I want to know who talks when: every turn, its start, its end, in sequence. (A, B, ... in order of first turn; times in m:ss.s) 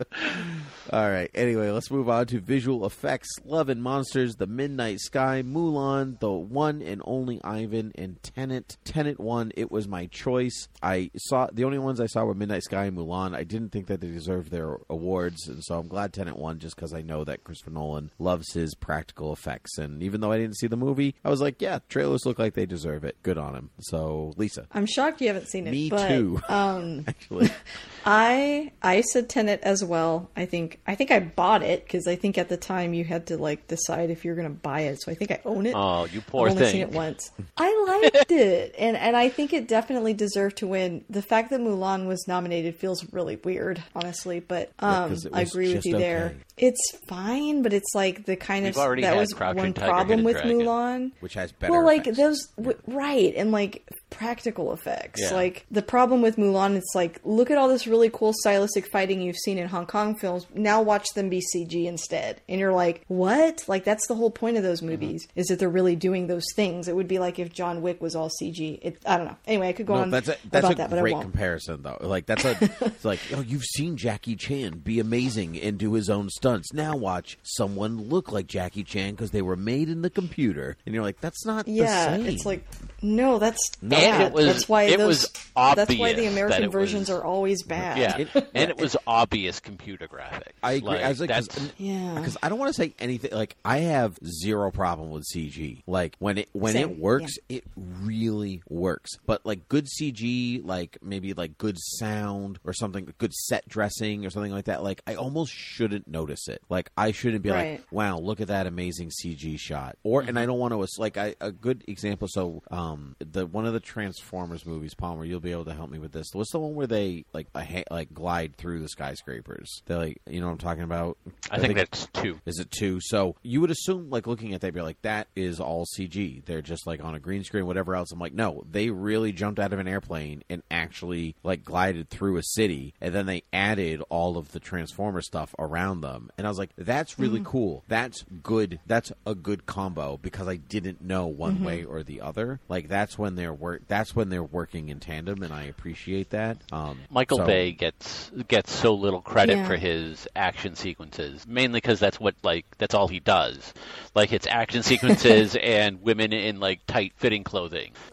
0:00.3-0:24.7 A
0:24.7-0:51.2 B
0:25.6-0:27.5 A
0:35.7-0:37.0 C
0:44.8-0:46.4 A
0:48.6-0:50.7 C
0:51.2-0:52.8 A
0:51.7-1:11.3 B
0:55.2-0:55.5 C
1:09.9-1:22.6 A
1:12.4-1:13.0 B
1:21.6-1:28.7 B
1:23.8-1:24.5 A
1:23.9-1:27.2 C
1:27.7-1:28.9 A
1:27.9-1:31.7 C
1:30.6-2:01.8 A
1:31.8-1:32.3 B
1:36.6-1:37.3 B
1:47.5-1:47.8 B
1:50.2-1:50.5 C
2:01.5-2:02.4 C
2:02.4-2:27.8 A
2:17.2-2:17.5 B
2:21.4-2:21.8 B
2:27.1-2:38.0 C
2:29.4-2:29.8 B